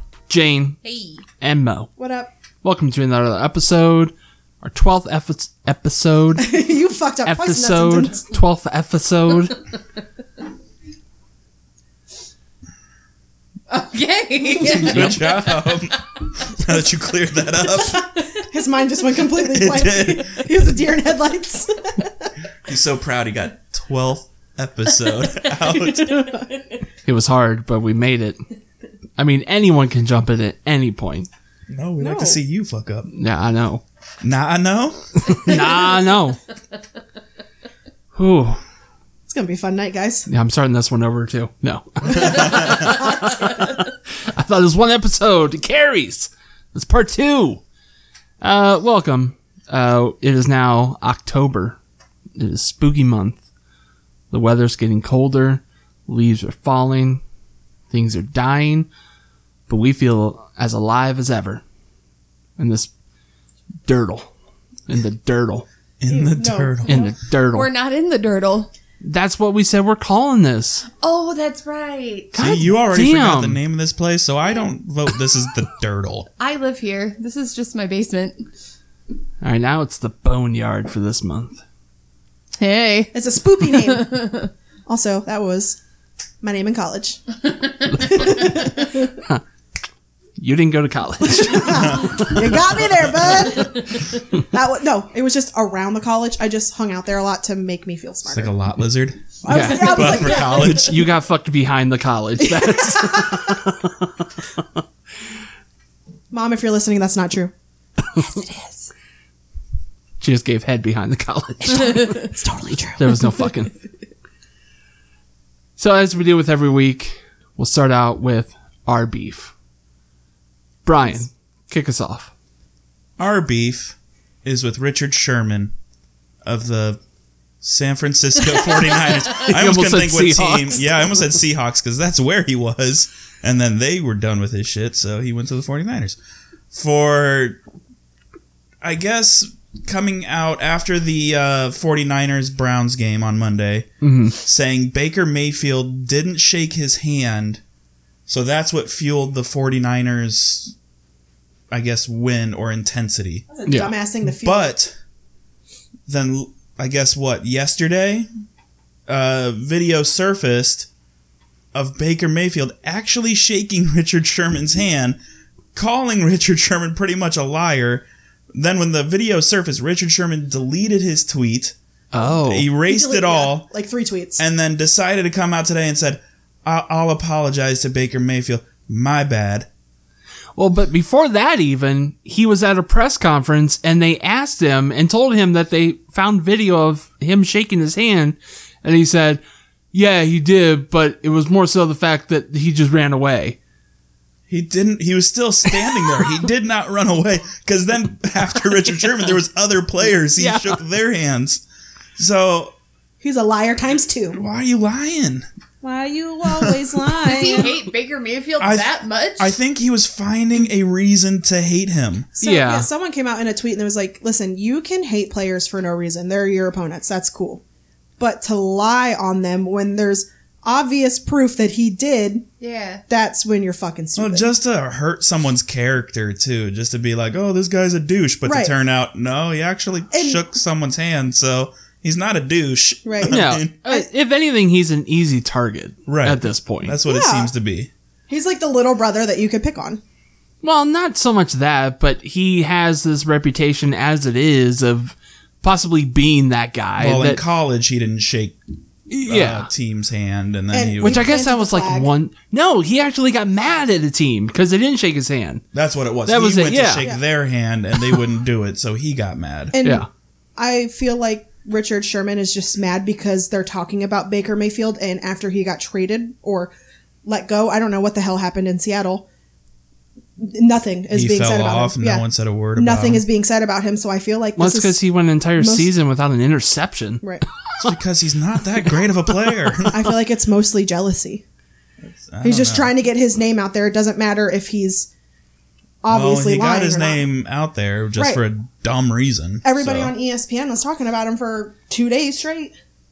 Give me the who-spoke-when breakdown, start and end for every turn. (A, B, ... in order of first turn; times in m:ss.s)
0:00.3-0:00.8 A
0:00.8-0:01.2 B
0:01.4-0:01.9 A
0:02.0-0:02.3 C
0:02.6-0:06.5 A
0:06.4-0:08.2 C
0:07.2-0:09.6 A
0:13.7-0:15.6 B
0:14.6-0:18.0 D
0:14.9-0:15.3 A
0:17.8-0:22.3 C
0:19.4-0:20.4 D
0:22.6-0:26.4 D
0:25.4-0:26.2 B
0:26.2-0:26.5 C
0:27.0-0:28.4 A
0:29.2-0:31.3 A
0:31.7-0:33.1 D
0:32.0-0:32.4 C
0:33.1-0:33.8 A
0:34.2-0:35.9 D
0:35.2-0:36.4 A
0:38.1-0:38.6 A
0:39.3-0:40.3 C
0:40.3-0:47.6 A
0:42.3-0:42.7 D
0:48.4-0:51.8 A
0:52.4-0:53.4 A
0:54.3-0:57.2 A
0:57.9-0:58.9 A
0:59.7-1:01.6 A
1:02.6-1:02.9 A
1:03.9-1:04.3 A
1:04.9-1:05.7 A
1:06.0-1:07.1 D
1:06.1-1:07.1 C
1:06.9-1:07.7 A
1:07.5-1:08.7 B
1:09.0-1:10.9 A
1:11.0-1:12.3 B
1:12.3-1:16.3 D
1:12.4-1:13.6 A
1:16.4-1:18.4 B
1:19.4-1:21.6 A
1:22.6-1:24.5 B
1:23.1-1:24.1 C
1:24.9-1:25.8 C
1:26.4-1:27.2 C
1:27.9-1:29.1 C
1:30.4-1:32.6 A
1:31.4-1:38.5 C
1:38.3-1:41.0 D
1:39.4-1:40.7 C
1:39.5-1:44.6 A
1:42.4-1:43.4 C
1:46.3-1:47.5 C
1:48.2-1:48.9 B
1:50.2-1:52.3 A
1:52.0-1:53.3 C
1:53.0-1:53.7 A
1:55.8-1:59.5 A
2:00.8-2:02.3 A
2:03.2-2:05.7 D
2:06.4-2:07.0 D
2:07.6-2:16.2 D
2:09.4-2:10.9 A
2:16.7-2:17.6 D
2:18.8-2:27.6 D
2:24.0-2:24.4 A
2:28.3-2:30.7 D
2:31.7-2:33.5 D
2:33.5-2:34.8 C
2:33.7-2:34.0 A
2:34.4-2:35.0 D
2:36.1-2:38.3 D
2:39.1-2:40.9 D
2:41.7-2:45.2 D
2:45.8-2:51.8 D
2:52.1-2:52.7 A
2:52.4-2:53.7 D
2:52.9-2:54.4 C
2:54.4-2:59.7 D
3:00.6-3:09.4 A
3:09.9-3:13.6 A
3:14.5-3:21.6 D
3:20.4-3:20.8 A
3:22.2-3:22.7 D
3:23.2-3:24.4 C
3:24.3-3:25.5 D
3:25.8-3:27.8 C
3:27.3-3:29.6 B
3:28.6-3:32.3 D
3:32.4-3:37.6 C
3:32.4-3:32.9 A
3:38.2-3:42.4 C
3:42.6-3:43.0 B
3:43.1-3:44.5 C
3:44.2-3:53.7 D
3:48.5-3:48.7 C
3:50.1-3:50.4 C
3:53.0-3:54.1 C
3:53.3-3:57.0 A
3:56.1-3:57.9 D
3:57.0-3:57.5 C
3:58.3-4:00.0 C
4:00.6-4:07.4 A
4:07.0-4:08.6 D
4:09.1-4:09.7 A
4:09.3-4:11.4 D
4:10.7-4:12.1 C
4:11.0-4:15.6 A
4:15.7-4:19.8 D
4:16.3-4:17.1 A
4:19.7-4:26.7 C
4:19.8-4:20.1 A
4:27.2-4:29.3 C
4:30.4-4:32.2 C
4:31.1-4:33.2 D
4:32.8-4:35.0 C
4:34.6-4:37.2 A
4:35.6-4:35.9 C
4:37.8-4:40.1 D
4:39.9-4:41.4 C
4:42.0-4:42.9 D
4:42.4-4:45.1 C
4:46.0-4:47.2 C
4:46.1-4:50.1 D
4:48.2-4:48.4 C
4:49.6-4:52.7 C